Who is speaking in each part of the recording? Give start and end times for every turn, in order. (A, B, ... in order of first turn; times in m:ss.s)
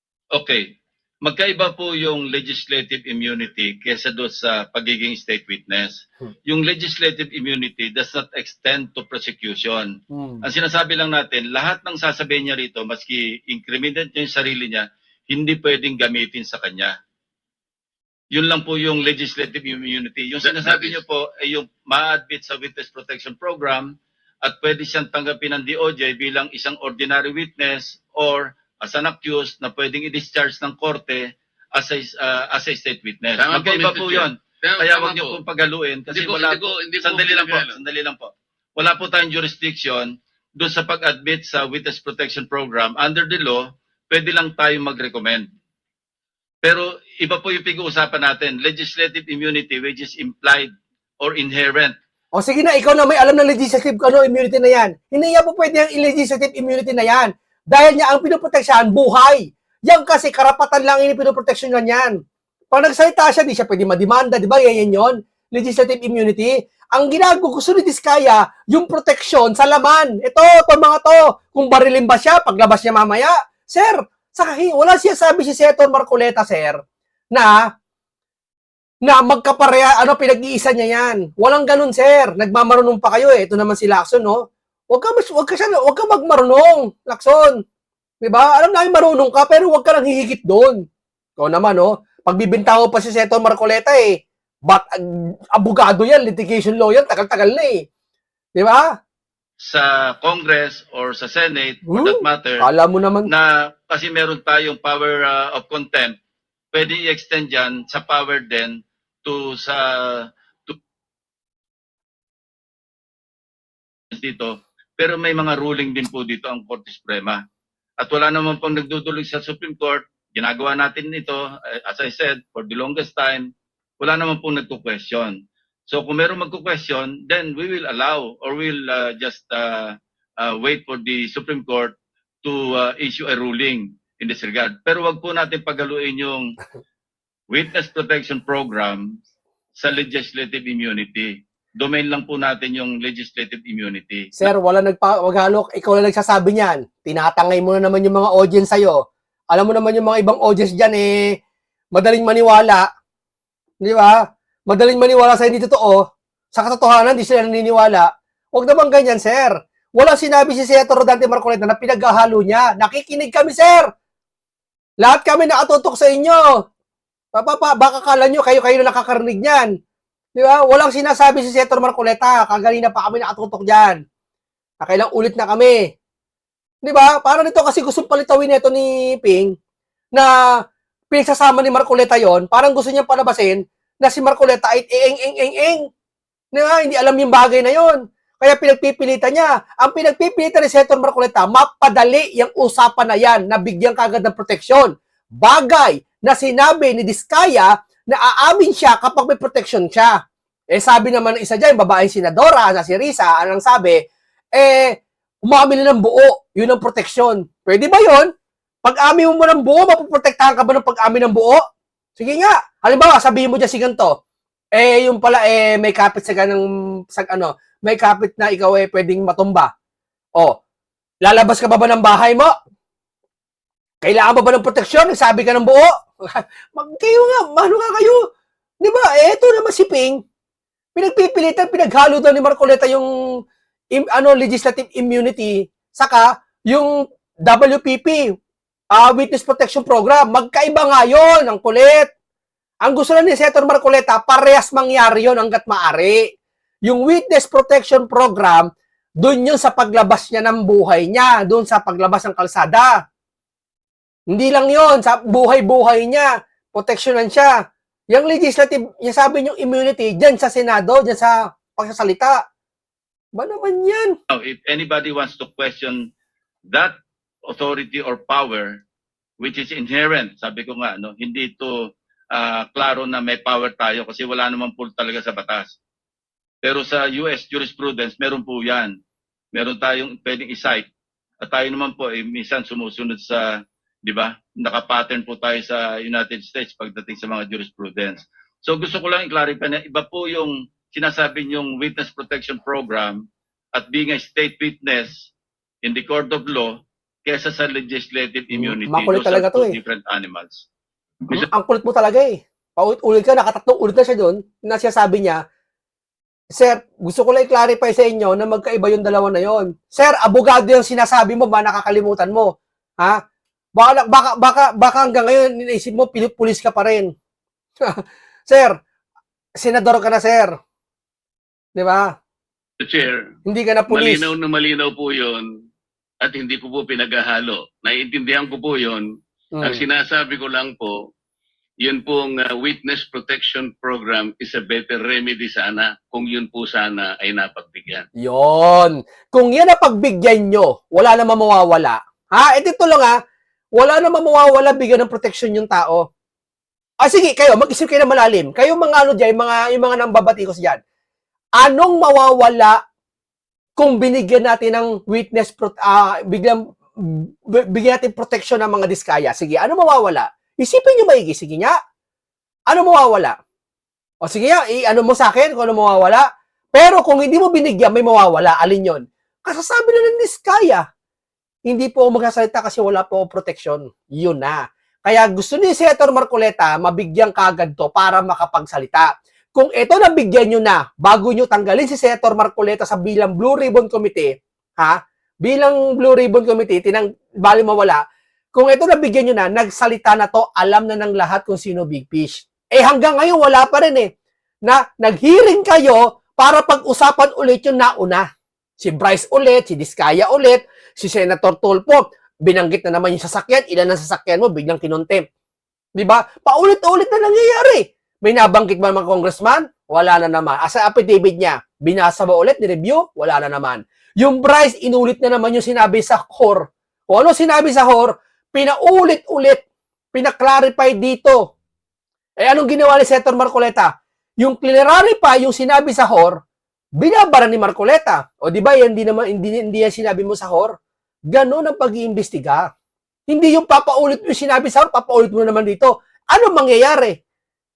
0:00.3-0:16.9 A
0:10.1-0:10.4 B
0:18.3-0:45.5 A
0:20.4-0:21.0 C
0:33.4-0:35.4 C
0:36.1-0:37.8 C
0:46.6-0:52.0 A
0:52.4-1:02.2 B
1:02.7-1:16.8 B
1:19.0-1:27.6 B
1:28.2-1:30.8 B
1:31.4-1:34.2 B
1:34.7-1:37.8 B
1:38.6-1:38.9 B
1:39.6-1:42.7 A
1:41.9-1:43.3 B
1:43.3-1:46.1 A
1:46.7-1:50.7 A
1:54.1-1:57.4 A
1:58.0-2:03.5 A
2:04.0-2:16.6 A
2:17.5-2:19.2 A
2:19.8-2:24.5 A
2:24.4-2:31.3 B
2:31.9-2:32.8 B
2:33.8-2:34.2 B
2:34.7-2:36.0 B
2:36.5-2:43.9 B
2:45.0-2:46.4 B
2:47.3-2:49.7 B
2:50.4-2:54.0 B
2:54.8-2:55.9 B
2:56.8-2:59.5 B
3:01.1-3:05.9 B
3:06.5-3:20.1 B
3:20.7-3:24.0 B
3:24.5-3:28.3 B
3:28.8-3:31.6 B
3:32.2-3:34.2 B
3:34.7-3:39.7 B
3:41.2-3:42.5 B
3:44.0-3:48.2 B
3:48.8-3:50.2 B
3:50.9-3:53.1 B
3:54.0-3:56.9 B
3:57.4-3:58.2 B
3:58.9-4:02.1 B
4:02.8-4:06.2 B
4:06.8-4:08.7 B
4:09.2-4:13.0 B
4:14.3-4:17.5 B
4:18.1-4:22.4 B
4:23.4-4:24.1 B
4:24.3-4:26.1 A
4:26.7-4:26.9 A
4:27.5-4:28.8 A
4:29.4-4:35.8 A
4:36.6-4:39.0 A
4:39.5-4:40.9 A
4:41.4-4:43.4 A
4:44.0-4:55.3 A
4:55.8-5:00.6 A
4:58.5-4:59.7 B
5:01.3-5:05.4 B
5:06.5-5:13.2 B
5:13.8-5:17.1 B
5:17.8-5:18.8 B
5:19.6-5:20.5 B
5:21.8-5:22.1 B
5:22.8-5:23.3 C
5:23.5-5:24.3 B
5:23.9-5:25.5 C
5:26.2-5:29.0 C
5:29.6-5:29.8 B
5:29.6-5:31.1 C
5:31.8-5:38.1 C
5:38.2-5:43.1 B
5:43.8-5:46.1 B
5:47.0-5:50.8 B
5:51.6-5:52.8 B
5:53.8-6:01.7 B
6:02.7-6:03.4 B
6:04.2-6:06.2 B
6:06.7-6:10.8 B
6:11.7-6:28.0 B
6:28.5-6:34.1 B
6:34.6-6:38.2 B
6:38.8-6:45.2 B
6:46.0-6:59.6 B
7:00.1-7:01.4 B
7:02.4-7:06.4 B
7:07.0-7:10.7 B
7:11.3-7:12.7 B
7:13.3-7:17.2 B